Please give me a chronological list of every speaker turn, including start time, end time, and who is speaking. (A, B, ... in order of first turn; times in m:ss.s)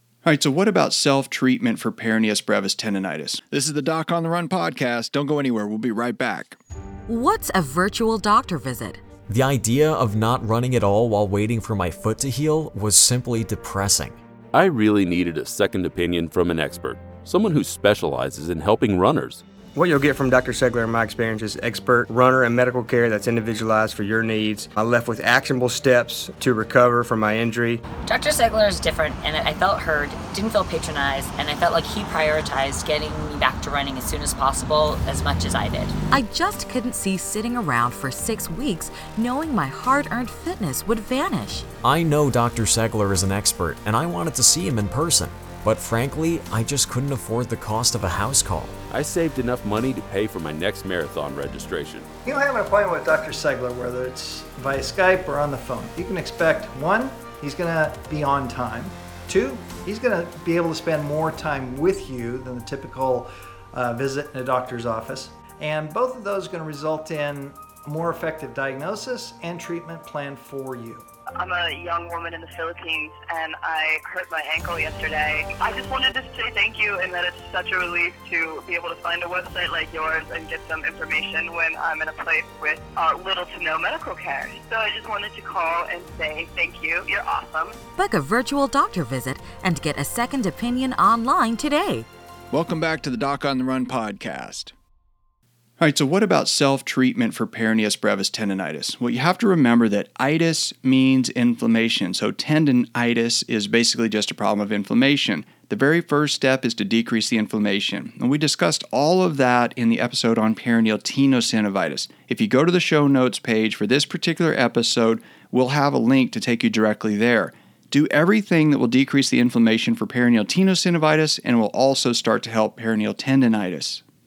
0:00.2-0:06.6 A
0:07.1-0:09.0 B
0:09.3-0:14.2 C
0:14.5-0:19.4 D
0:19.7-0:27.8 E
0:28.0-0:35.9 F
0:36.1-0:41.7 B
0:41.8-0:48.8 C
0:48.9-0:52.0 D
0:52.2-1:11.0 G
1:11.4-1:27.8 H
1:28.0-1:32.0 B
1:32.5-1:34.7 A
1:35.8-2:04.0 A